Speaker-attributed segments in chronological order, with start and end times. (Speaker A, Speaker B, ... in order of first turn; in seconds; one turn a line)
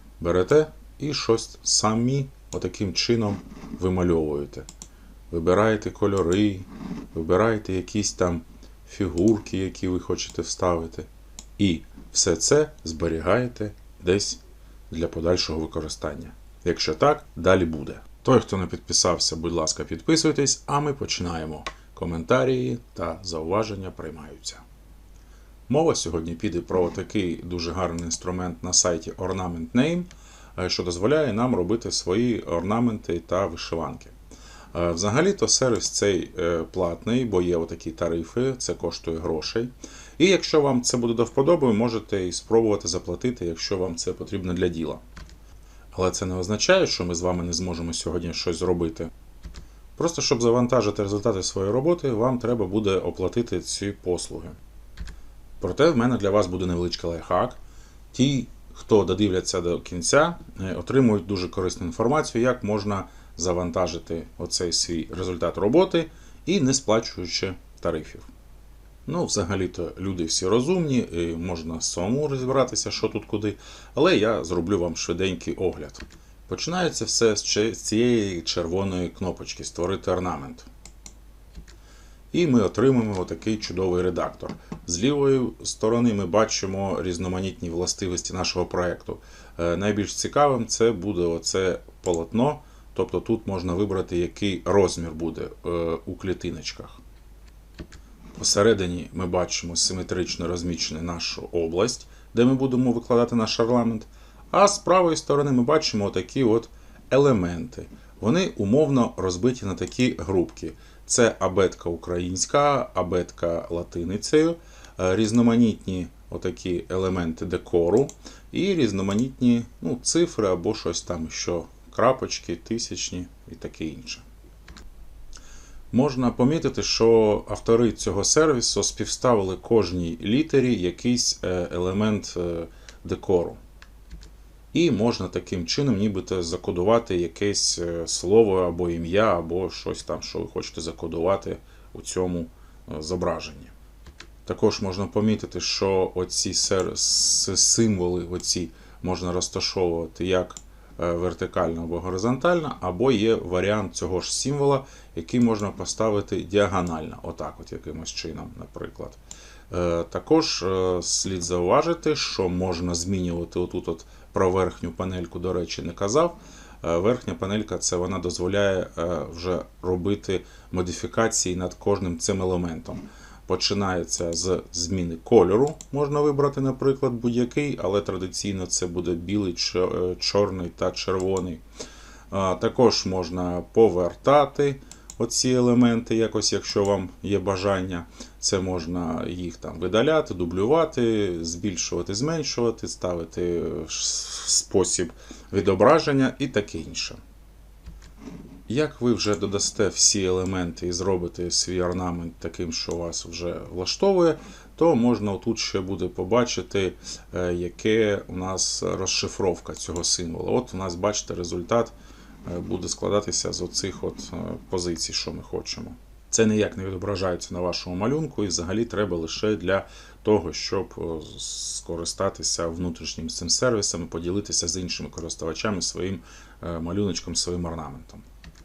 Speaker A: 0.2-4.7
Speaker A: 5.3-24.6
Speaker A: 25.7-34.1
Speaker A: 34.7-45.0
Speaker A: 45.9-49.1
Speaker A: 50.0-54.6
Speaker A: 55.6-57.6
Speaker A: 58.1-68.3
Speaker A: 69.1-80.7
Speaker A: 82.3-97.0
Speaker A: 98.4-124.2
Speaker A: 125.9-133.6
Speaker A: 134.7-143.7
Speaker A: 144.5-159.2
Speaker A: 159.7-181.6
Speaker A: 182.3-197.2
Speaker A: 198.7-211.9
Speaker A: 212.5-228.2